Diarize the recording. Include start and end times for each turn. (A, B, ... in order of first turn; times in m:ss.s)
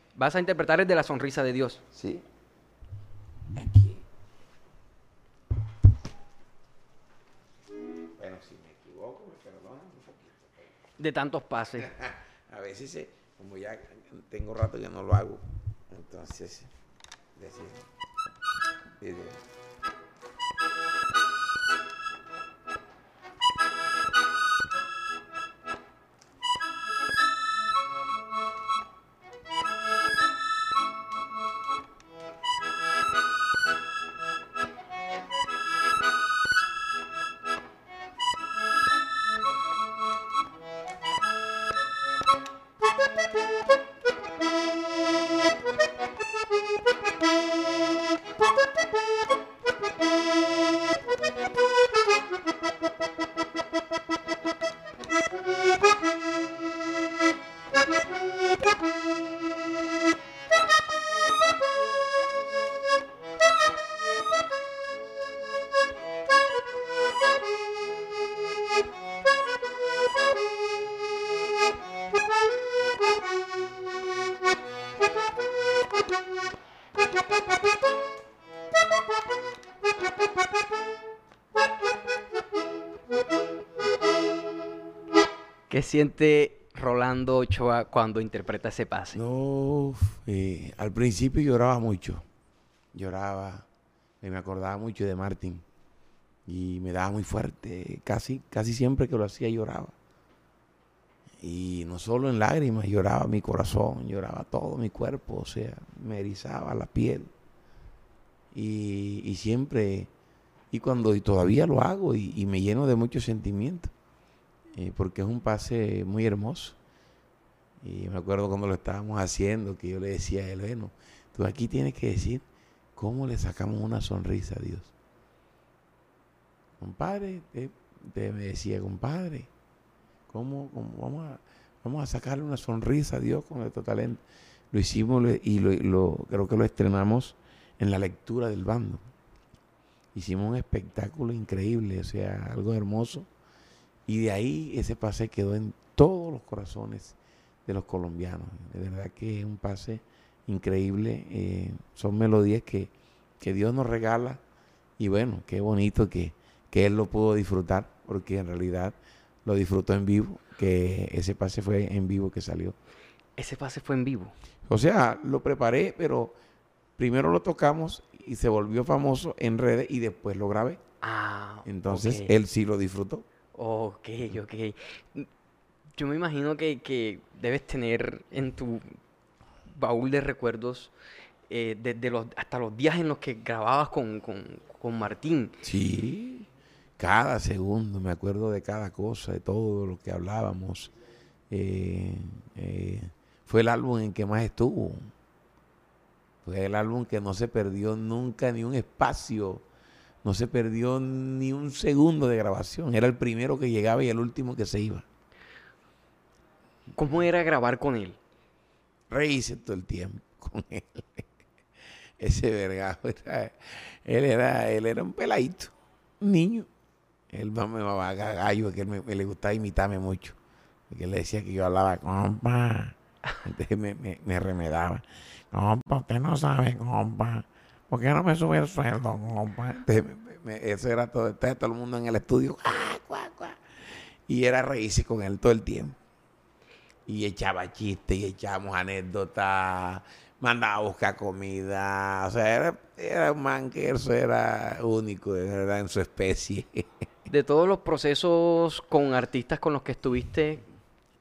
0:00.2-0:01.8 A
0:01.9-0:02.2 B
0:03.5-0:04.0 B
0:08.2-0:10.5 B
0:11.0-0:11.9 A
0:11.8-0:16.7 B
0:17.3-0:17.8 B
0:19.0-0:19.4 B
1:25.7-1:29.2 A
1:29.1-1:32.2 B
1:32.9-1:33.7 B
1:34.2-1:35.6 B
1:36.4-1:39.9 B
1:41.4-1:47.3 B
1:48.5-1:50.1 B
1:50.7-1:53.9 B
1:54.7-1:56.8 B
1:57.8-2:02.4 B
2:03.0-2:04.9 B
2:06.8-2:09.5 B
2:10.3-2:19.0 B
2:20.1-2:23.3 B
2:24.1-2:34.4 B
2:35.0-2:42.8 B
2:43.4-2:44.3 A
2:44.7-2:46.3 B
2:47.0-2:50.8 B
2:51.0-2:52.3 A
2:51.6-2:53.2 B
2:53.5-2:55.3 A
2:56.0-2:59.0 A
2:59.7-3:00.9 A
3:01.5-3:05.6 A
3:05.6-3:06.5 B
3:07.0-3:10.9 B
3:11.5-3:15.1 B
3:16.4-3:19.6 B
3:20.2-3:25.0 B
3:26.9-3:28.2 A
3:29.1-3:31.3 B
3:32.2-3:36.7 B
3:37.3-3:40.4 B
3:40.9-3:53.6 B
3:54.3-3:56.0 B
3:57.1-4:06.9 B
4:07.3-4:10.6 A